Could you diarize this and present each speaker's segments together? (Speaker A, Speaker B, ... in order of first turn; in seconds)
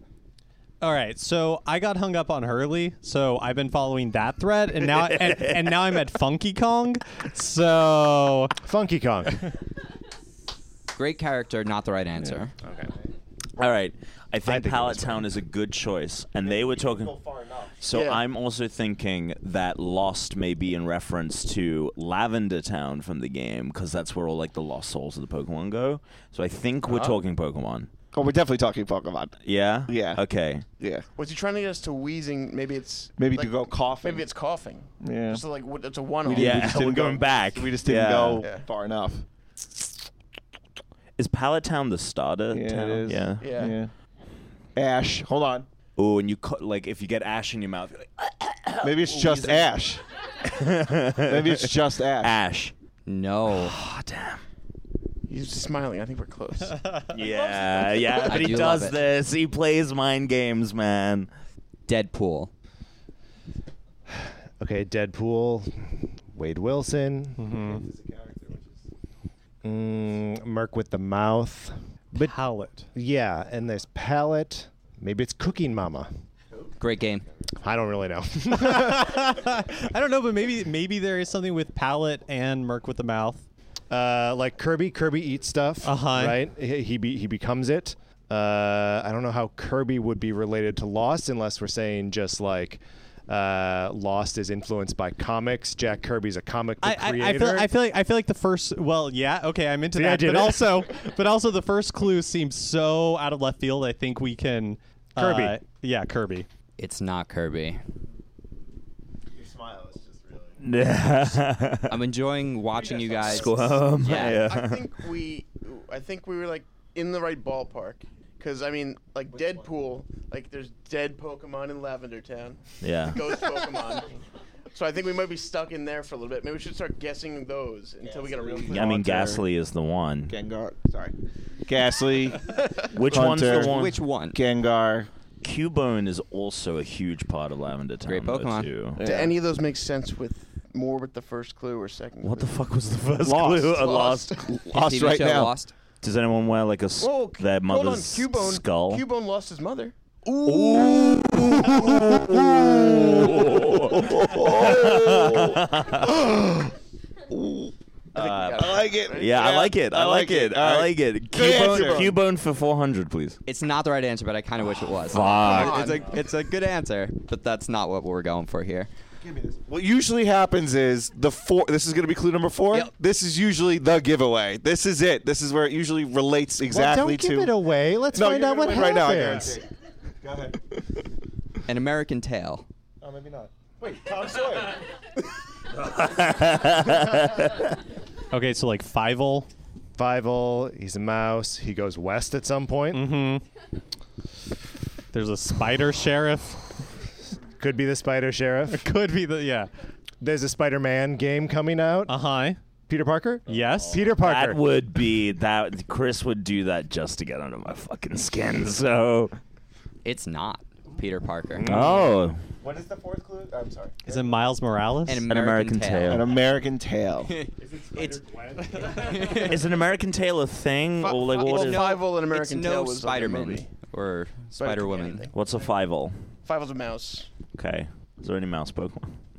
Speaker A: 0.8-8.5, 67.3-67.8, 72.2-72.9, 78.5-83.4, 85.8-86.4, 96.8-106.5, 188.3-189.5, 192.9-193.4, 195.1-196.8, 198.7-199.7, 202.1-202.6, 203.5-204.1, 214.0-215.2
Speaker B: 5.0-5.8, 13.6-17.2, 17.8-27.9, 29.4-30.6, 36.3-38.4, 41.2-43.5, 46.0-49.7, 50.4-52.7, 53.5-54.4, 57.1-61.3, 110.6-112.0, 113.2-114.8, 122.8-123.3, 128.7-130.4, 132.9-134.0, 135.4-139.0, 142.2-144.4, 146.0-149.0, 150.4-156.2, 158.1-163.4, 165.1-166.0, 185.7-187.7, 204.1-209.4, 211.6-212.4, 215.3-216.4, 219.1-222.0, 225.3-226.2, 227.6-229.2
Speaker C: 8.6-9.4, 14.4-15.3, 64.6-67.5, 69.6-72.3, 72.9-76.1, 77.6-79.2, 83.9-97.7, 99.9-100.8, 105.2-105.6, 176.7-179.6, 190.0-193.1, 197.6-198.8, 200.2-202.2, 202.9-204.6, 211.6-212.2
Speaker D: 10.9-12.5, 53.0-53.7, 58.2-59.0, 61.9-62.5, 76.8-77.2, 106.8-107.8, 111.9-114.4, 133.4-134.4, 138.1-138.7, 144.7-145.7, 163.4-168.9, 181.7-182.7, 210.0-211.7, 215.1-216.2, 217.3-218.2, 218.7-219.6, 221.4-225.3
Speaker E: 16.4-17.8, 28.1-30.2, 30.8-31.1, 33.2-34.2, 35.0-35.4, 36.2-39.2, 42.5-43.9, 44.8-45.7, 48.8-50.0, 51.2-52.3, 67.6-68.8, 76.5-76.8, 109.3-110.6, 112.8-113.5, 119.3-119.7, 128.0-129.5, 130.3-131.1, 131.7-133.8, 134.3-135.1, 139.0-139.4, 143.2-145.5, 152.1-156.7, 157.3-157.7, 158.5-162.2, 169.2-177.6, 178.1-179.7, 180.2-180.8, 183.0-184.8, 212.6-214.4, 216.1-218.8
Speaker F: 17.9-18.2, 26.9-27.2, 31.2-36.9, 38.4-38.6, 43.4-43.8, 55.3-57.3, 114.0-124.1, 124.7-129.0, 139.0-142.5, 143.7-144.5, 147.0-152.1, 158.1-159.4, 165.1-166.1, 221.0-223.7, 224.6-225.3, 226.4-227.3